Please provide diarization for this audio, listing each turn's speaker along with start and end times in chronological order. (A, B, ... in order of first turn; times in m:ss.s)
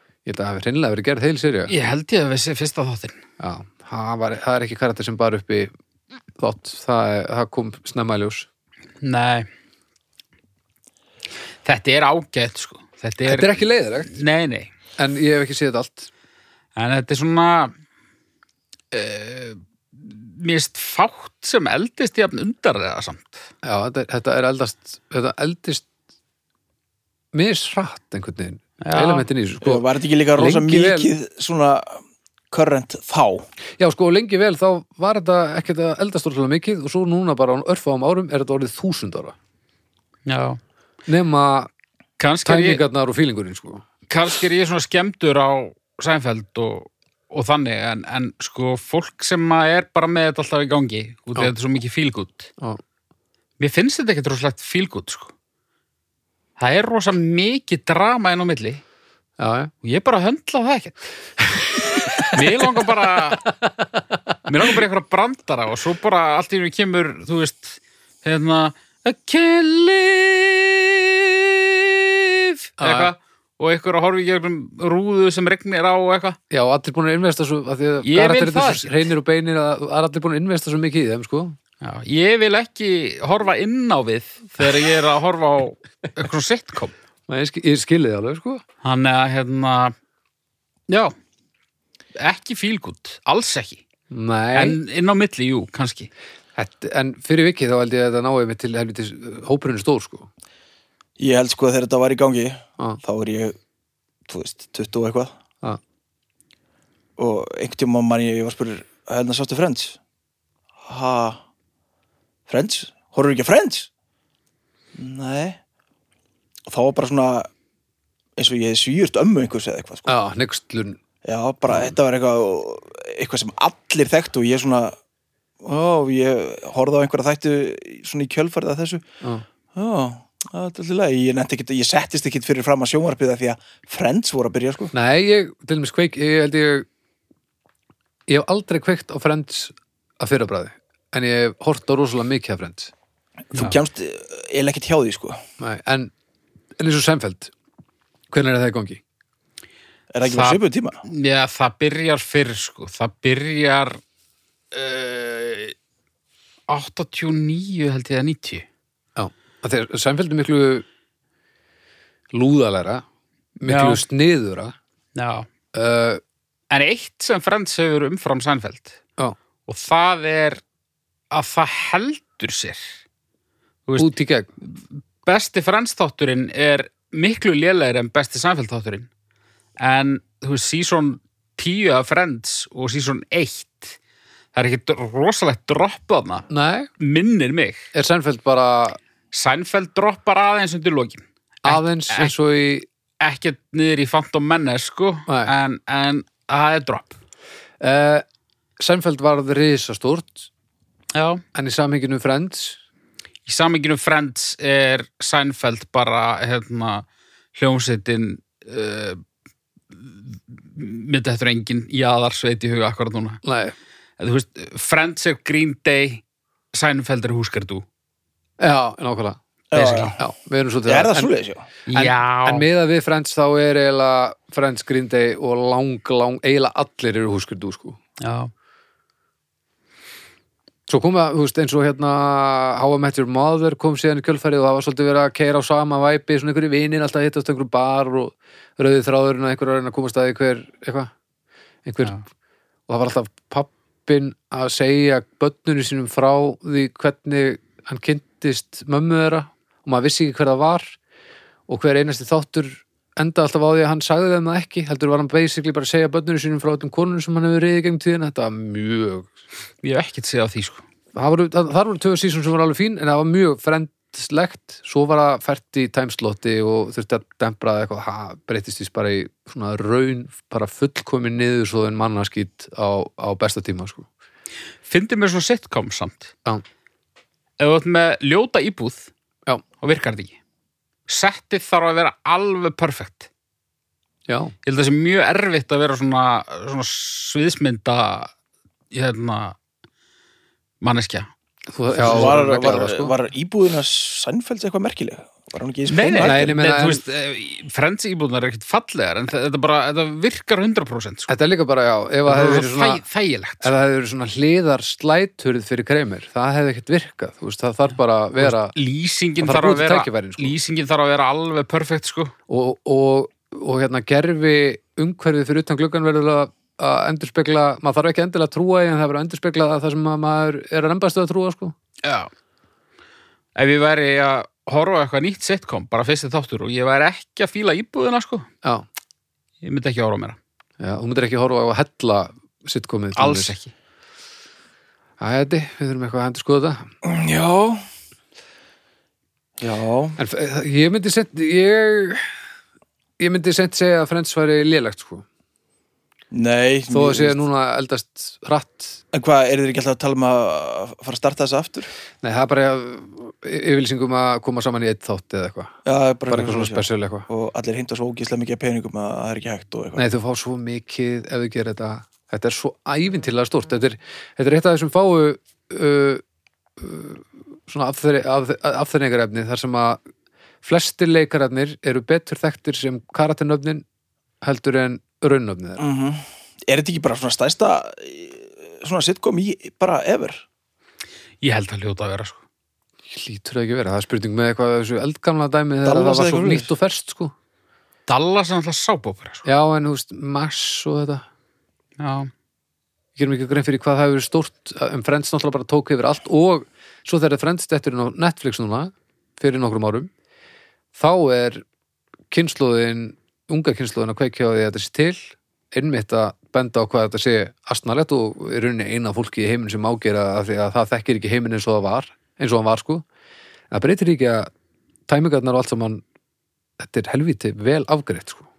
0:00.2-0:01.7 A
0:01.7-0:03.2 B
0:03.4-0:05.7 A
0:06.4-0:08.5 A
0:09.0-0:09.5 B
0:11.6-0:14.7 B
0:13.2-0:14.2 A
0:15.0-0:16.1 A
0:16.8-0:17.7 B
0:18.9-0:23.4 B
0:23.6-0:25.9 A
0:27.3-0:29.8 A
0:28.8-0:29.3 B
0:29.6-0:33.4 C
0:30.4-0:31.1 A
0:33.8-0:39.3 A
0:40.2-0:40.6 B
0:41.1-0:41.7 A
0:42.2-0:42.8 B
0:42.4-0:43.8 A
0:44.1-0:52.5 B
0:53.6-0:55.3 B
0:56.6-0:58.8 B
0:59.4-0:59.7 A
0:59.8-1:01.0 B
1:02.0-1:03.4 B
1:02.0-1:02.9 A
1:03.4-1:04.0 A
1:04.4-1:16.4 B
1:12.8-1:13.1 A
1:16.5-1:21.6 A
1:18.0-1:19.0 B
1:21.8-1:26.9 B
1:27.3-1:28.6 A
1:28.8-1:29.9 B
1:30.9-1:31.1 B
1:32.2-1:33.8 B
1:34.1-1:34.8 A
1:34.5-1:36.1 B
1:36.6-1:40.3 A
1:41.2-1:43.6 C
1:44.3-1:45.3 C
1:47.2-1:50.0 C
1:50.8-1:51.4 C
1:52.5-1:53.9 C
1:54.9-1:55.6 C
1:56.7-1:57.5 C
1:58.4-2:00.1 C
2:00.1-2:01.0 A
2:01.2-2:05.0 C
2:01.7-2:01.9 A
2:05.6-2:09.0 C
2:09.7-2:14.9 C
2:14.9-2:16.9 A
2:18.3-2:22.9 A
2:23.5-2:25.4 C
2:25.6-2:26.1 A
2:26.8-2:27.5 A
2:28.3-2:29.0 A
2:30.1-2:31.0 C
2:30.2-2:34.0 B
2:34.7-2:35.7 B
2:36.7-2:38.6 B
2:39.2-2:40.8 A
2:42.3-2:43.0 A
2:43.6-2:44.7 A
2:43.6-2:44.0 B
2:45.1-2:45.5 B
2:45.7-2:46.2 A
2:46.7-2:49.0 B
2:49.7-2:50.6 B
2:51.3-2:52.9 B
2:54.0-2:54.5 A
2:54.6-2:59.1 B
2:59.8-3:04.0 B
3:04.5-3:06.5 B
3:06.5-3:06.9 A
3:07.0-3:07.9 B
3:07.9-3:09.0 A
3:09.3-3:12.3 B
3:11.6-3:12.9 A
3:13.2-3:17.2 B
3:15.3-3:15.5 A
3:17.8-3:18.2 A
3:18.8-3:20.5 A
3:21.1-3:21.4 B
3:21.5-3:22.8 A
3:23.4-3:29.2 B
3:29.9-3:33.4 B
3:33.4-3:33.7 A
3:34.2-3:37.8 B
3:38.6-3:41.3 A
3:39.7-3:40.2 C
3:39.8-3:40.1 B
3:40.8-3:41.6 C
3:41.9-3:42.6 B
3:41.9-3:48.0 A
3:48.2-3:48.5 B
3:50.9-4:01.1 A
4:01.8-4:02.2 A
4:02.9-4:11.0 A
4:11.7-4:19.3 A
4:19.8-4:20.8 B
4:21.1-4:34.0 A
4:34.8-4:36.3 B
4:37.6-4:39.1 B
4:39.8-4:40.4 B
4:41.1-4:43.3 B
4:44.3-4:44.5 A
4:44.6-4:48.3 B
4:48.9-4:49.6 B
4:50.8-4:51.3 B
4:51.7-4:53.1 A
4:52.0-4:52.3 B
4:52.0-4:56.4 C
4:55.9-5:01.3 B
4:56.2-4:57.0 A
5:01.3-5:03.0 A
5:02.2-5:03.7 B
5:03.6-5:08.7 A
5:08.4-5:12.3 B
5:09.4-5:10.6 A
5:12.5-5:21.7 A
5:22.0-5:22.3 B
5:23.6-5:28.5 B
5:29.6-5:30.4 B
5:30.8-5:33.5 A
5:33.2-5:33.7 B
5:35.2-5:36.9 A
5:37.0-5:37.8 C
5:39.6-5:40.2 C
5:40.2-5:42.3 A
5:43.2-5:45.2 A
5:46.3-5:47.4 C
5:46.9-5:49.0 A
5:49.1-5:51.9 C
5:52.2-5:55.7 A
5:55.8-6:00.0 C
5:56.3-5:57.3 A
6:00.0-6:06.2 A
6:06.8-6:10.0 A
6:10.6-6:13.8 A
6:14.4-6:15.8 A
6:15.8-6:20.4 C
6:21.4-6:22.4 B
6:23.1-6:27.3 A
6:25.8-6:26.7 C
6:28.1-6:29.4 B
6:29.4-6:31.2 A
6:32.0-6:32.3 B
6:33.2-6:40.1 A
6:40.9-6:41.6 A
6:42.3-6:53.0 A
6:53.7-6:54.5 A
6:55.1-6:56.0 A
6:56.8-6:58.5 A